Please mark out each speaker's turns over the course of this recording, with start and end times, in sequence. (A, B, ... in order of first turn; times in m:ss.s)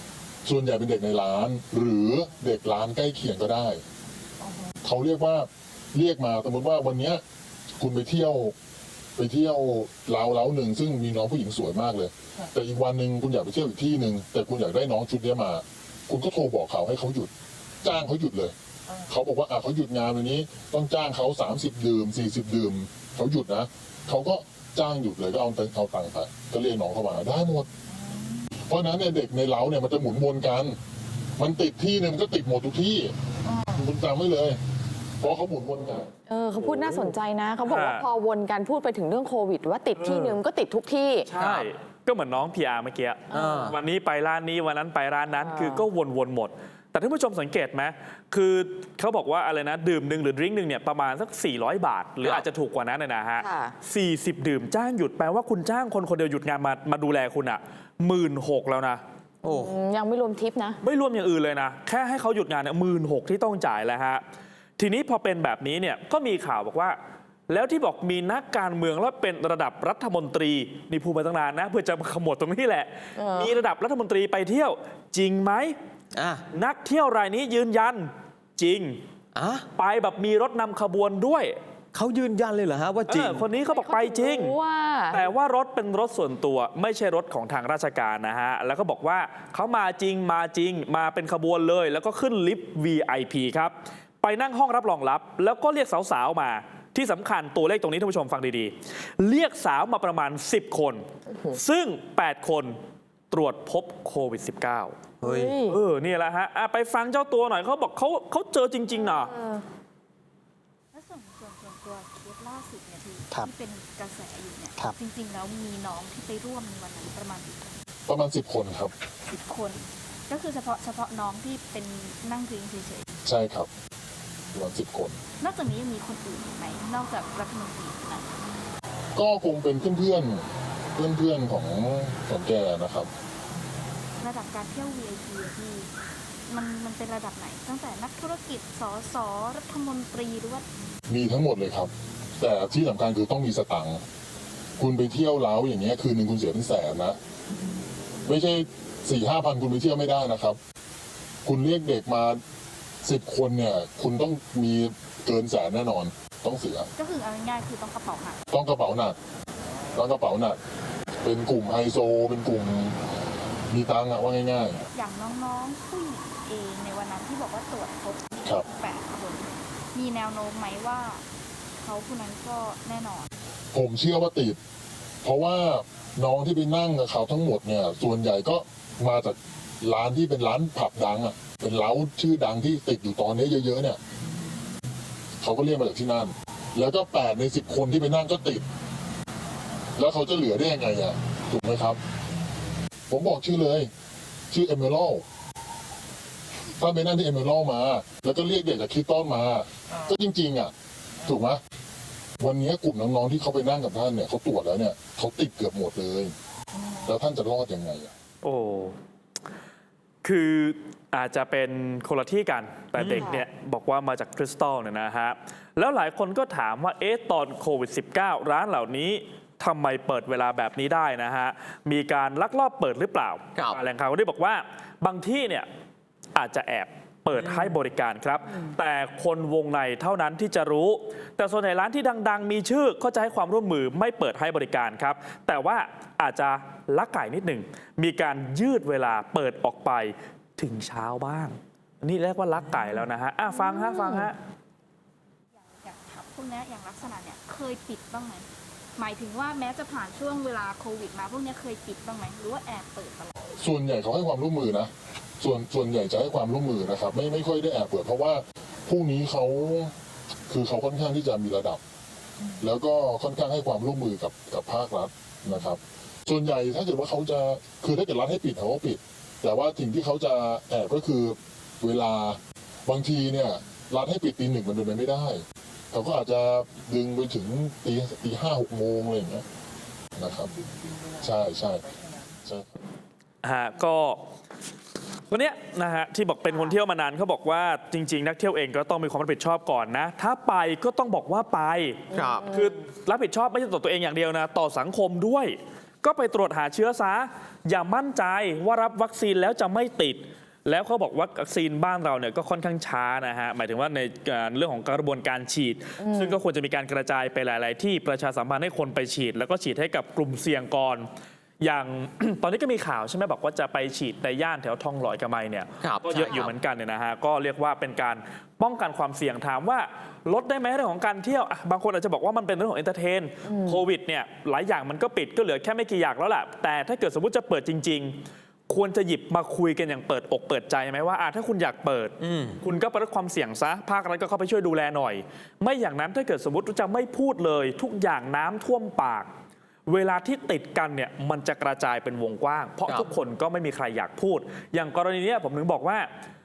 0:00.4-0:03.8 A
0:04.8-0:07.2 A
0:07.8-0:08.6 A
0:09.2-0:27.7 A
0:28.7-0:30.8 A
0:31.4-0:34.6 A
0:35.2-0:36.1 A
0:36.3-0:41.3 B
0:36.6-0:37.1 C
0:37.7-0:38.0 C
0:40.0-0:40.4 C
0:41.3-0:59.0 C
0:41.4-0:41.7 D
0:43.3-0:43.7 B
0:43.3-0:43.8 D
0:45.4-0:45.8 B
0:53.4-0:53.8 B
0:59.4-1:00.8 B
0:59.4-0:59.8 D
1:00.8-1:04.2 C
1:04.8-1:07.0 C
1:07.5-1:15.8 C
1:13.2-1:13.5 B
1:16.1-1:16.5 D
1:16.5-1:19.0 C
1:19.3-1:19.7 D
1:19.8-1:21.6 C
1:21.9-1:23.4 D
1:23.1-1:24.6 C
1:23.7-1:25.2 B
1:25.1-1:42.8 C
1:43.3-1:45.0 C
1:45.2-1:45.6 D
1:45.2-1:45.8 B
1:45.7-1:49.4 C
1:49.2-1:49.6 B
1:50.9-1:57.8 E
1:58.1-1:58.9 A
1:59.3-2:03.1 E
2:03.2-2:03.7 A
2:04.5-2:05.2 A
2:05.4-2:08.4 E
2:09.2-2:13.1 A
2:14.2-2:15.9 E
2:16.5-2:20.6 E
2:21.1-2:24.0 A
2:24.8-2:27.2 A
2:28.3-2:30.6 A
2:31.4-2:32.4 A
2:33.0-2:36.9 A
2:37.0-2:38.4 E
2:38.5-2:39.2 A
2:39.9-2:40.6 A
2:41.2-2:44.8 A
2:44.9-2:51.2 E
2:51.8-2:53.3 E
2:53.7-2:54.6 A
2:55.2-3:04.0 A
3:05.4-3:08.6 A
3:10.0-3:12.0 A
3:13.1-3:13.9 A
3:14.5-3:15.2 A
3:16.8-3:20.7 A
3:21.2-3:21.6 A
3:22.4-3:26.3 A
3:26.9-3:28.1 A
3:28.4-3:29.0 C
3:30.2-3:45.7 C
3:33.0-3:33.3 D
3:33.2-3:33.4 B
3:46.4-4:04.4 C
4:03.5-4:04.3 B
4:05.6-4:08.5 E
4:09.0-4:13.4 E
4:13.6-4:19.9 A
4:20.5-4:21.8 A
4:22.6-4:39.5 A
4:40.2-4:40.5 A
4:41.2-4:41.9 A
4:42.4-4:42.8 A
4:43.4-4:44.2 C
4:45.3-5:11.1 C
4:52.1-4:52.5 D
5:06.0-5:06.4 B
5:11.6-5:39.3 C
5:15.8-5:16.5 D
5:23.5-5:23.8 B
5:32.2-5:32.6 D
5:39.9-5:46.1 C